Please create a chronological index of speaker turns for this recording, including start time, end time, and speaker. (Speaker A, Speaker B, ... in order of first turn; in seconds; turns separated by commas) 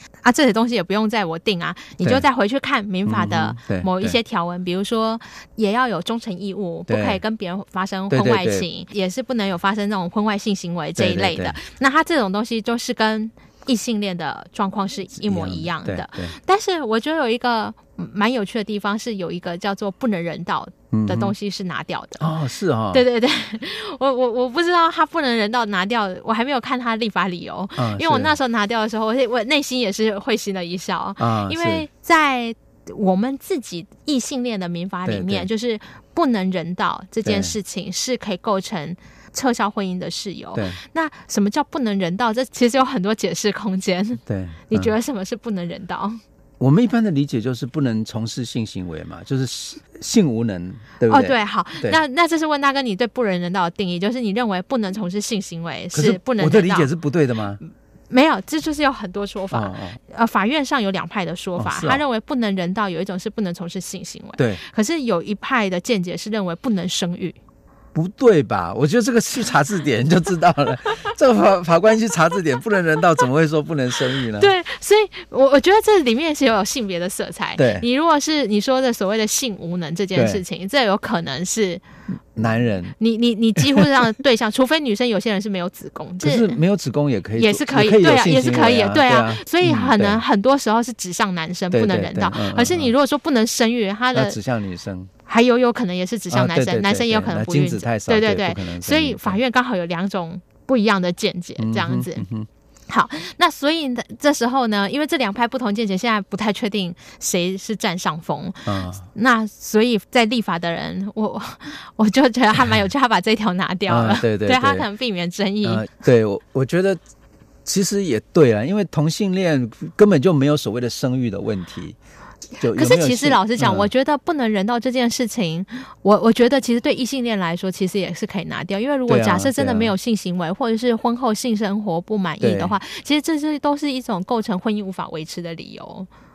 Speaker A: 0.2-22.3, Speaker B: 3.0-4.2, Speaker B: 6.9-7.2, Speaker B: 8.1-8.7, Speaker B: 11.0-11.6, Speaker B: 15.2-16.3, Speaker B: 20.9-21.3, Speaker B: 22.2-23.0, Speaker A: 22.9-46.2, Speaker B: 27.8-28.3, Speaker B: 31.2-31.9, Speaker B: 35.0-35.5, Speaker B: 37.2-37.5, Speaker B: 40.5-40.8, Speaker B: 44.2-44.9, Speaker B: 46.6-52.0, Speaker A: 51.1-56.9, Speaker B: 55.9-57.6, Speaker A: 58.1-67.4, Speaker B: 59.5-60.0, Speaker B: 61.6-62.0, Speaker B: 64.4-64.6, Speaker B: 67.9-74.5, Speaker A: 74.3-81.8, Speaker B: 77.6-77.8, Speaker B: 80.1-80.4, Speaker B: 82.3-83.0, Speaker A: 83.0-86.6, Speaker B: 86.2-90.2, Speaker A: 87.4-94.4, Speaker B: 91.7-92.9, Speaker B: 94.1-95.1, Speaker A: 95.3-102.2, Speaker B: 96.3-99.4, Speaker B: 101.6-102.5, Speaker A: 102.9-115.8, Speaker B: 108.7-109.0, Speaker B: 113.9-114.8, Speaker B: 115.6-117.0, Speaker B: 117.6-122.0, Speaker B: 122.6-123.9, Speaker A: 122.6-136.1, Speaker B: 129.1-129.9, Speaker B: 132.4-132.8